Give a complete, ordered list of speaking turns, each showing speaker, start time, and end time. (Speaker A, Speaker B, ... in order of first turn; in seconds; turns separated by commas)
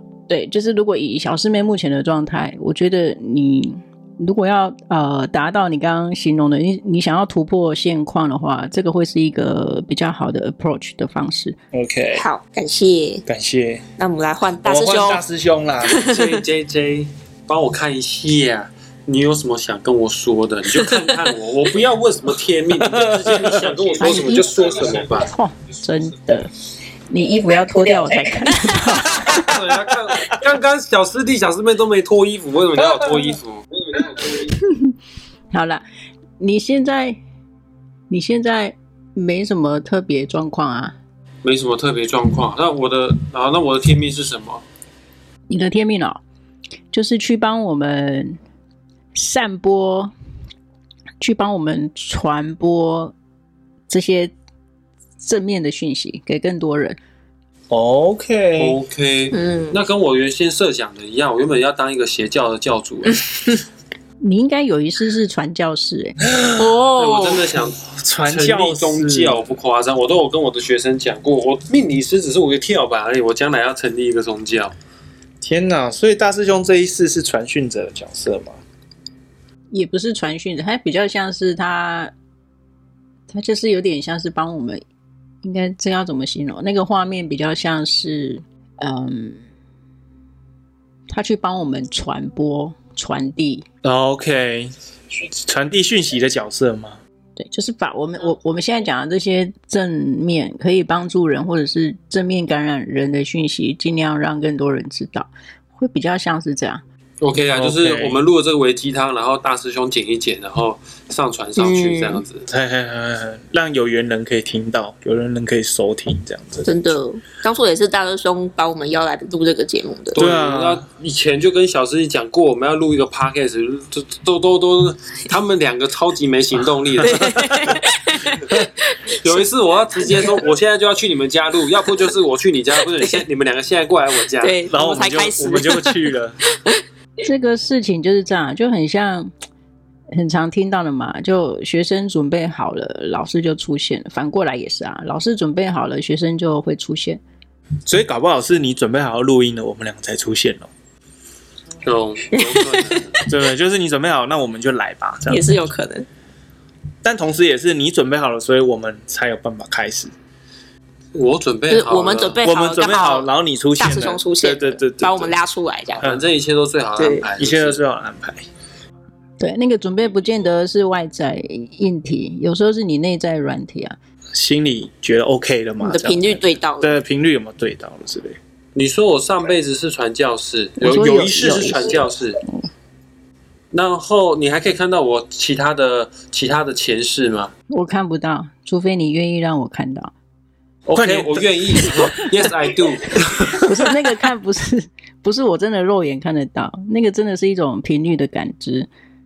Speaker A: 0.3-11.6, Speaker B: 11.7-12.2, Speaker C: 12.1-13.2, Speaker B: 13.3-13.8, Speaker C: 14.0-15.2, Speaker B: 14.6-16.1, Speaker C: 15.9-16.4, Speaker D: 15.9-25.3, Speaker B: 22.9-23.7, Speaker A: 24.0-26.5, Speaker A: 27.1-29.4, Speaker D: 29.2-33.6, Speaker A: 34.5-34.9, Speaker A: 35.5-35.8, Speaker A: 36.4-37.2, Speaker A: 38.1-40.9, Speaker D: 41.4-44.6, Speaker A: 45.5-46.2, Speaker A: 46.9-48.4, Speaker A: 49.1-50.1, Speaker A: 51.2-53.1, Speaker A: 53.9-54.3, Speaker A: 55.2-57.0, Speaker B: 57.7-58.8, Speaker D: 58.6-63.2, Speaker C: 59.3-59.8, Speaker A: 64.2-66.2, Speaker B: 66.2-66.8, Speaker C: 66.6-67.4, Speaker D: 66.9-74.7, Speaker B: 67.8-69.4, Speaker B: 75.4-78.6, Speaker A: 79.7-82.1, Speaker A: 83.3-84.8, Speaker A: 85.4-89.4, Speaker A: 91.1-93.6, Speaker B: 93.8-97.0, Speaker A: 97.4-106.8, Speaker D: 107.2-112.5, Speaker B: 107.5-108.2, Speaker C: 111.6-112.2, Speaker B: 112.5-116.9, Speaker C: 116.6-120.2, Speaker D: 120.1-127.8, Speaker B: 120.2-120.8, Speaker B: 127.0-127.7, Speaker C: 127.0-129.3, Speaker D: 129.2-134.6, Speaker C: 130.0-130.3, Speaker C: 134.4-136.0, Speaker B: 134.7-136.4, Speaker A: 137.2-139.3, Speaker A: 140.1-147.2, Speaker B: 147.8-150.7, Speaker D: 151.8-153.2, Speaker C: 152.3-153.2, Speaker B: 153.3-155.6, Speaker C: 155.3-156.1, Speaker B: 157.0-160.1, Speaker D: 161.1-162.4, Speaker C: 161.7-163.3, Speaker B: 162.4-165.3, Speaker C: 163.8-166.0, Speaker B: 166.0-166.2, Speaker D: 166.0-167.8, Speaker C: 167.0-167.3, Speaker B: 167.4-168.4, Speaker A: 169.4-173.9, Speaker B: 174.3-178.4, Speaker C: 175.8-176.9, Speaker D: 178.7-182.4, Speaker A: 180.8-182.0, Speaker B: 181.3-181.7, Speaker D: 183.7-187.5, Speaker A: 187.7-190.1, Speaker D: 190.9-193.5, Speaker B: 190.9-192.1, Speaker A: 193.5-198.9